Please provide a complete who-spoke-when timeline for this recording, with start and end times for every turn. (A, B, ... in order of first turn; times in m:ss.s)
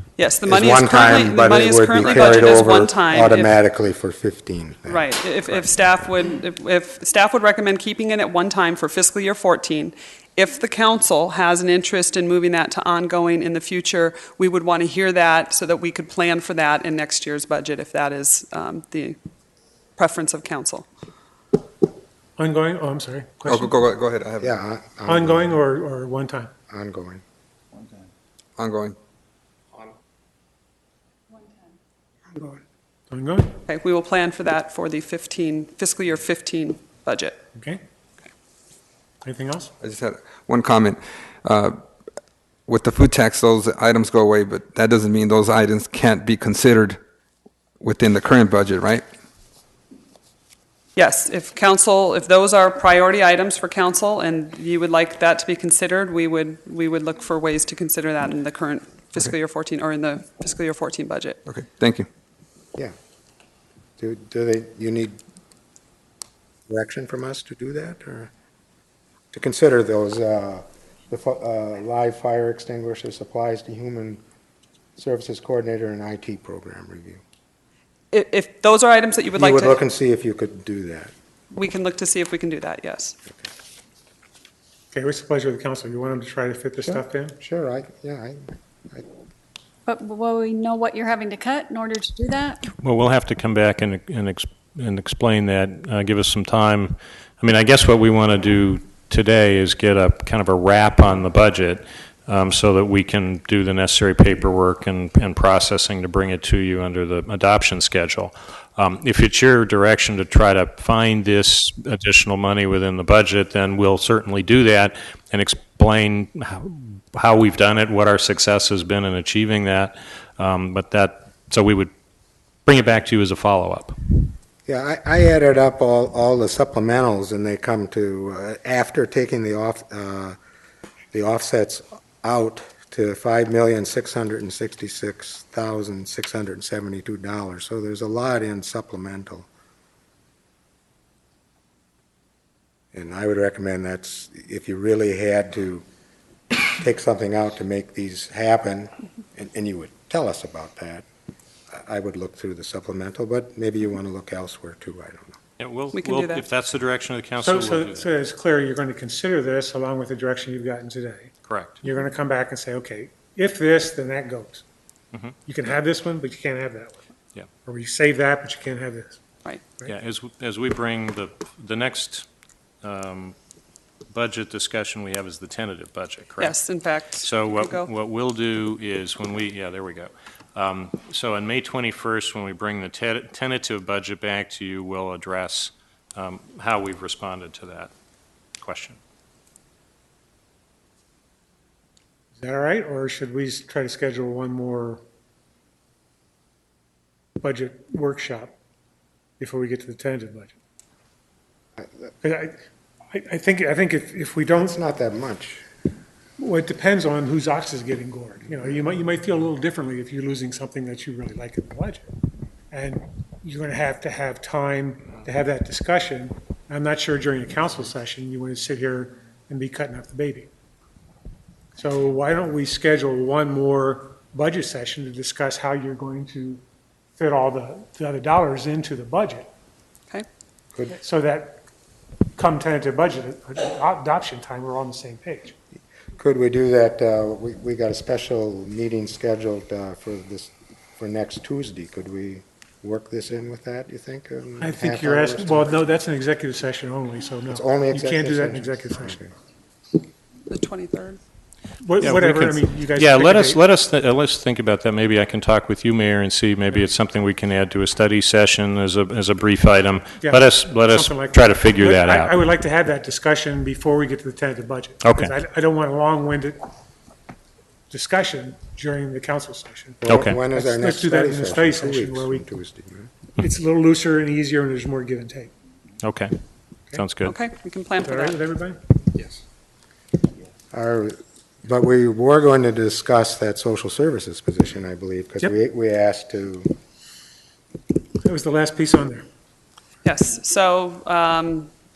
0:00.2-0:03.6 A
0:00.4-0:05.6 B
0:04.9-0:19.2 A
0:20.0-0:20.8 A
0:22.4-0:23.8 C
0:23.5-0:24.5 D
0:24.4-0:25.6 B
0:25.1-0:26.5 C
0:26.7-0:27.2 B
0:28.6-0:29.0 D
0:31.3-0:31.6 E
0:33.1-0:33.6 C
0:33.7-0:37.4 A
0:37.6-0:37.8 C
0:39.2-0:39.7 C
0:39.8-0:41.8 D
0:42.7-0:47.0 D
0:47.8-0:49.0 D
0:51.0-1:01.4 A
1:01.5-1:02.1 D
1:04.0-1:05.2 B
1:06.7-1:08.3 B
1:09.3-1:14.2 B
1:15.0-1:17.2 B
1:18.1-1:19.8 A
1:19.4-1:21.1 B
1:21.5-1:23.2 A
1:24.9-1:27.4 C
1:26.8-1:29.1 B
1:29.9-1:32.6 E
1:32.7-2:01.9 F
2:02.7-2:04.0 F
2:04.7-2:10.4 B
2:11.1-2:19.5 B
2:22.9-2:25.8 B
2:26.6-2:31.0 B
2:31.7-2:35.4 B
2:35.6-2:38.1 F
2:35.9-2:36.4 A
2:37.4-2:44.6 C
2:41.4-2:41.8 F
2:45.5-2:47.1 C
2:47.6-2:49.2 C
2:49.9-2:52.3 F
2:52.8-2:53.4 F
2:54.1-3:07.9 F
2:56.4-2:57.9 A
3:08.6-3:09.0 F
3:12.4-3:15.0 C
3:17.4-3:18.6 C
3:19.4-3:20.6 C
3:22.2-3:22.6 C
3:23.1-3:24.8 C
3:24.6-3:25.6 B
3:26.4-3:32.2 C
3:32.7-3:40.5 C
3:41.8-3:46.6 C
3:47.2-3:49.5 C
3:50.9-3:51.6 C
3:52.3-3:55.6 C
3:56.2-4:05.8 B
4:04.6-4:09.2 C
4:07.5-4:09.3 B
4:10.5-4:11.2 A
4:11.8-4:13.6 C
4:12.0-4:22.4 F
4:20.2-4:26.7 C
4:25.0-4:25.3 F
4:27.9-4:30.0 C
4:30.0-4:33.1 B
4:30.1-4:30.4 F
4:30.5-4:32.4 C
4:33.4-4:35.5 C
4:36.0-4:36.3 F
4:37.0-4:37.4 F
4:37.2-4:38.4 A
4:38.0-4:38.8 C
4:40.7-4:46.7 B
4:48.2-4:49.2 C
4:50.0-4:51.7 A